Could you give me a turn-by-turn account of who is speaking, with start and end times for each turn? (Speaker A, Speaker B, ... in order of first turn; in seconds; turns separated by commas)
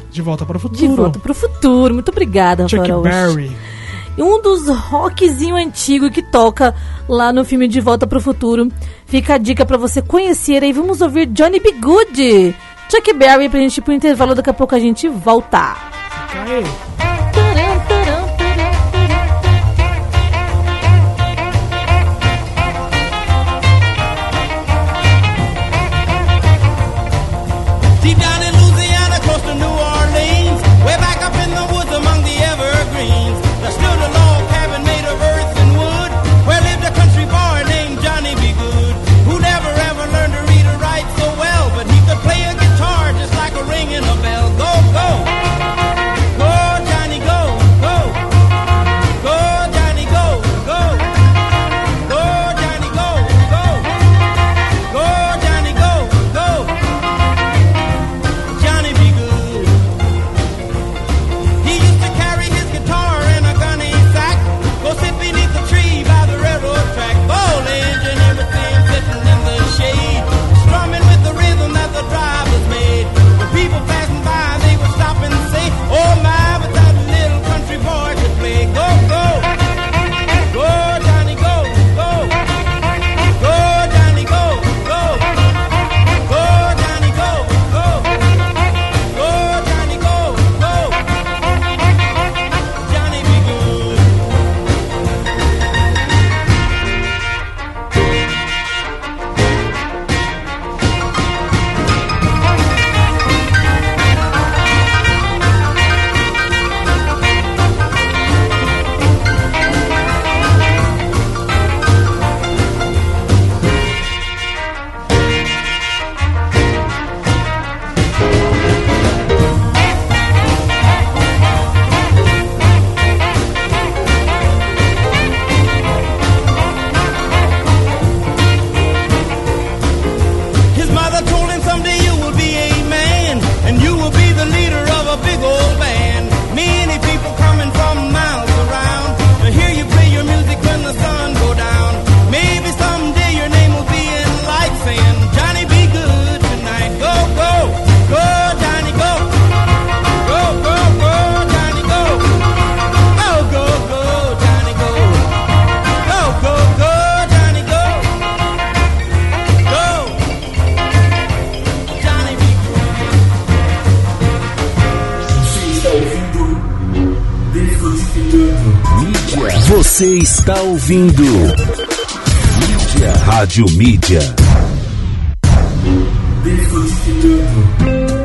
Speaker A: 0.1-1.2, Speaker B: 0.7-3.4, Speaker A: 2.6-3.6, Speaker B: 4.2-15.8, Speaker A: 16.1-16.8, Speaker B: 17.3-19.2, Speaker C: 28.0-45.3, Speaker C: 46.3-48.2, Speaker C: 49.2-51.1, Speaker C: 52.0-53.9, Speaker C: 54.9-56.8, Speaker C: 58.5-59.9, Speaker C: 61.6-79.5, Speaker C: 80.5-82.5, Speaker C: 83.2-85.4, Speaker C: 86.2-88.2, Speaker C: 89.1-91.0, Speaker C: 92.8-94.2, Speaker C: 130.7-149.3, Speaker C: 150.2-152.4, Speaker C: 153.1-155.2, Speaker C: 156.0-158.2, Speaker C: 159.6-160.2, Speaker C: 161.9-163.0, Speaker D: 165.2-166.7, Speaker D: 167.5-171.6, Speaker D: 172.5-174.4, Speaker D: 176.4-177.7